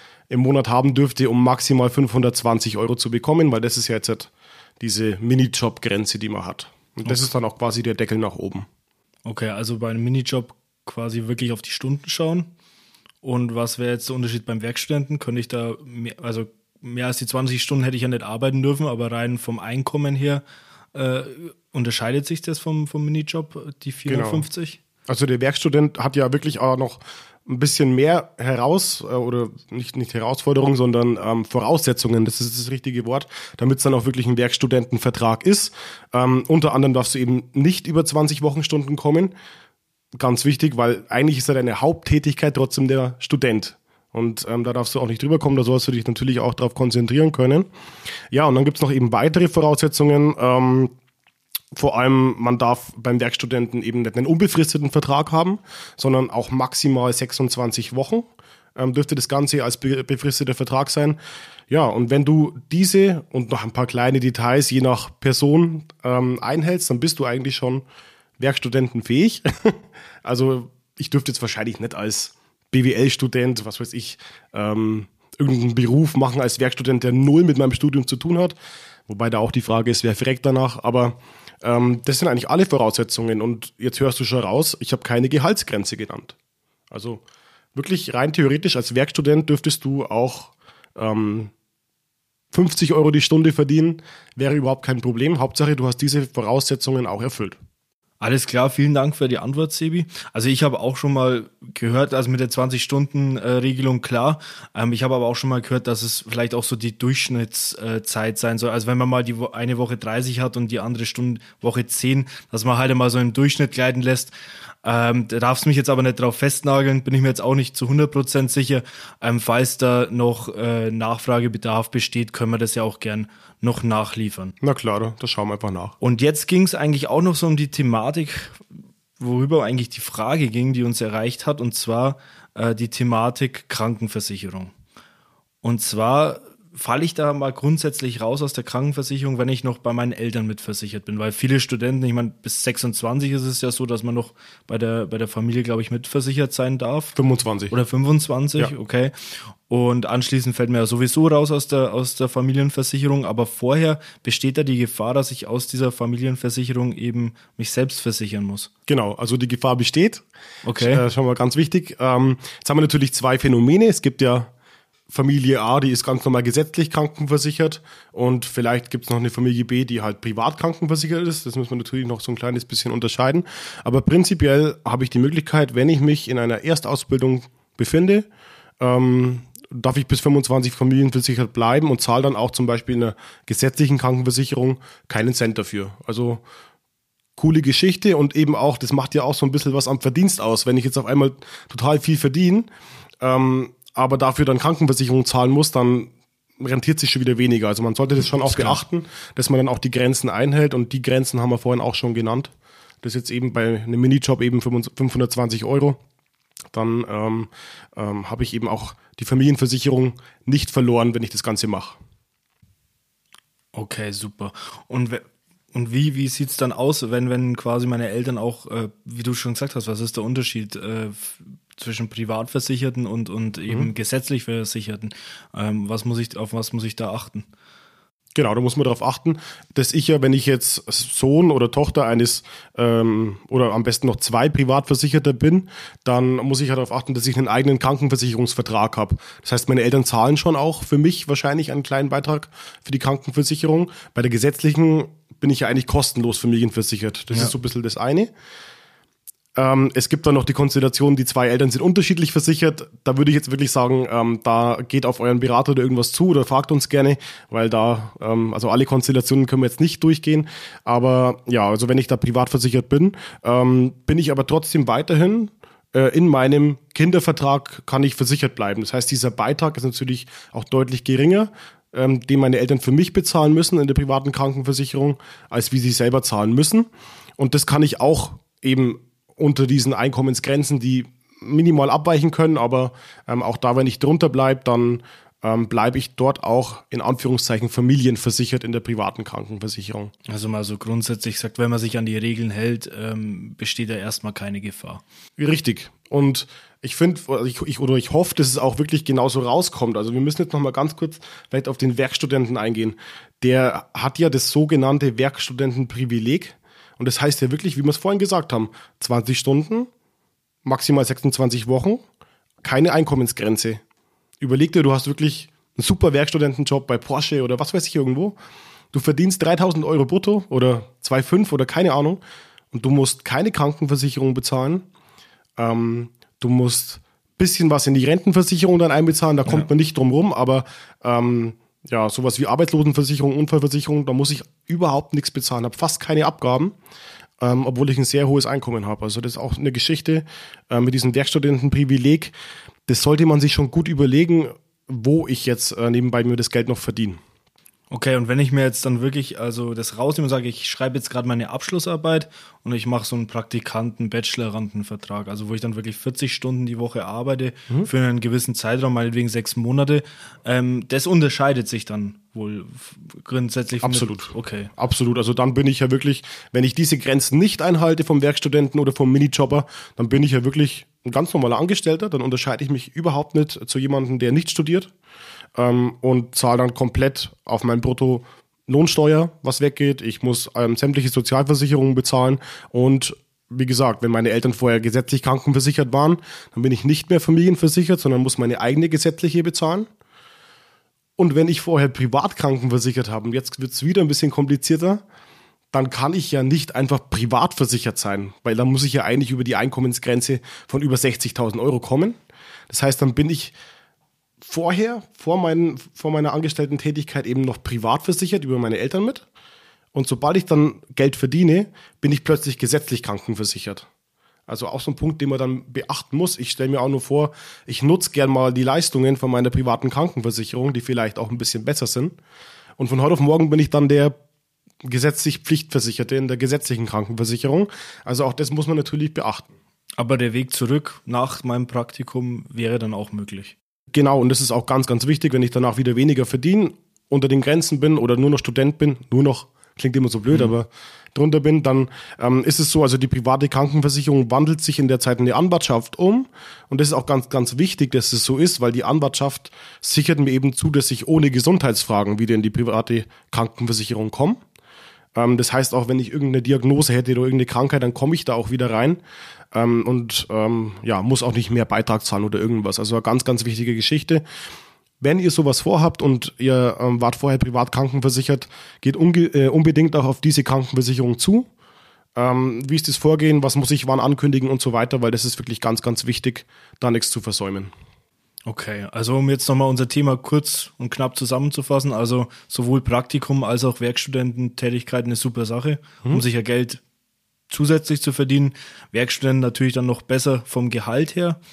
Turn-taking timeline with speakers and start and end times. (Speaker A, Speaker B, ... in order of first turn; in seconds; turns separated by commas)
Speaker A: 0.3-8.7, Speaker B: 7.0-7.3, Speaker B: 9.2-12.5, Speaker B: 13.2-24.8, Speaker A: 24.1-24.5, Speaker A: 25.1-39.3, Speaker A: 40.2-47.7, Speaker A: 48.3-50.9, Speaker A: 51.7-67.8, Speaker A: 68.4-78.6, Speaker A: 79.1-86.3, Speaker A: 86.9-87.2, Speaker A: 87.8-91.5, Speaker A: 92.5-97.6, Speaker B: 98.2-124.5, Speaker A: 124.6-126.0, Speaker B: 126.0-128.7, Speaker B: 129.2-134.7, Speaker B: 135.6-147.2, Speaker A: 147.2-147.8, Speaker B: 147.7-158.7, Speaker A: 158.9-164.5, Speaker B: 160.6-161.0, Speaker A: 165.1-178.3, Speaker A: 178.8-186.4, Speaker A: 187.4-192.7, Speaker A: 193.2-202.5, Speaker B: 198.4-198.8, Speaker A: 203.0-206.0, Speaker A: 206.7-212.0, Speaker B: 213.7-227.5, Speaker A: 228.3-248.3, Speaker A: 249.6-290.1, Speaker B: 290.3-295.0, Speaker A: 295.4-309.9, Speaker A: 310.6-312.0, Speaker A: 312.6-313.8, Speaker A: 314.4-318.4, Speaker A: 318.9-322.2, Speaker A: 322.7-324.9, Speaker A: 325.6-336.8, Speaker A: 337.4-342.4, Speaker A: 342.9-347.2, Speaker B: 347.9-364.7, Speaker A: 363.8-374.9, Speaker A: 375.6-389.9, Speaker A: 391.2-395.0, Speaker A: 395.7-402.2, Speaker A: 402.7-403.5, Speaker A: 404.4-409.3, Speaker A: 409.9-413.9, Speaker A: 414.5-422.1, Speaker A: 422.8-424.1, Speaker A: 424.8-429.5, Speaker B: 430.0-433.5, Speaker A: 433.9-454.4, Speaker A: 455.1-459.0, Speaker A: 459.5-464.2, Speaker A: 465.0-471.5, Speaker A: 472.2-477.7, Speaker B: 478.5-486.8, Speaker B: 487.5-491.4